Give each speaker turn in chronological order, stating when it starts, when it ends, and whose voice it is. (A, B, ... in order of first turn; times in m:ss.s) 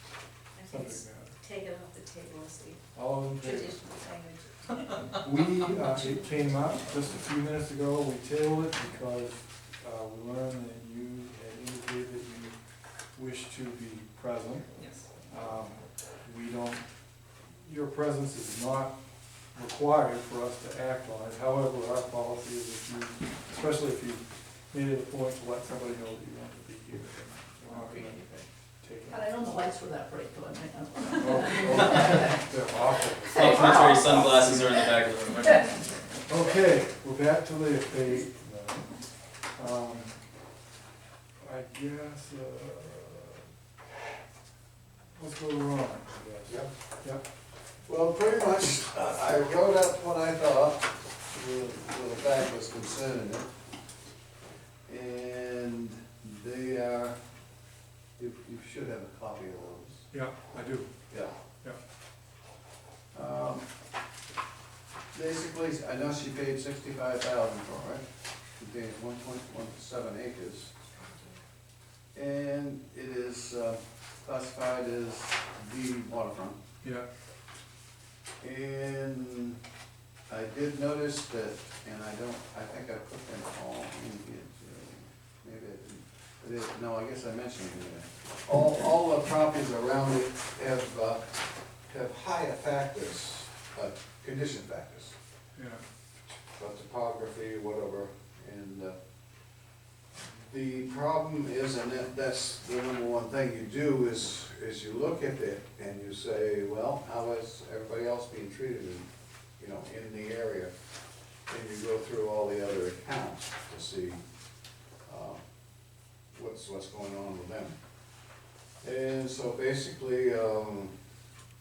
0:00.6-0:02.8 A
0:00.6-0:01.4 B
0:02.9-0:03.8 B
0:03.4-0:04.3 A
0:03.9-0:04.7 C
0:05.1-0:12.6 B
0:13.2-0:14.7 B
0:15.3-0:16.8 B
0:17.6-0:18.9 B
0:19.5-0:29.3 B
0:27.8-0:28.2 C
0:29.1-0:32.4 C
0:31.0-0:33.7 B
0:33.3-0:34.9 C
0:33.3-0:35.8 D
0:36.3-0:38.9 B
0:39.6-0:40.2 B
0:41.4-0:43.4 B
0:45.2-0:47.2 B
0:47.8-0:53.5 E
0:54.9-0:57.2 E
0:58.2-1:00.0 E
1:00.1-1:00.9 B
1:03.1-1:03.6 E
1:05.1-1:08.0 E
1:08.6-1:10.7 E
1:12.2-1:16.6 E
1:18.4-1:19.6 E
1:20.3-1:31.2 E
1:31.9-1:35.2 E
1:35.6-1:35.8 B
1:36.6-1:38.9 E
1:40.3-1:49.1 E
1:49.6-1:50.7 E
1:51.5-1:54.2 E
1:55.1-1:55.4 E
1:56.3-1:57.8 E
1:58.8-2:00.9 E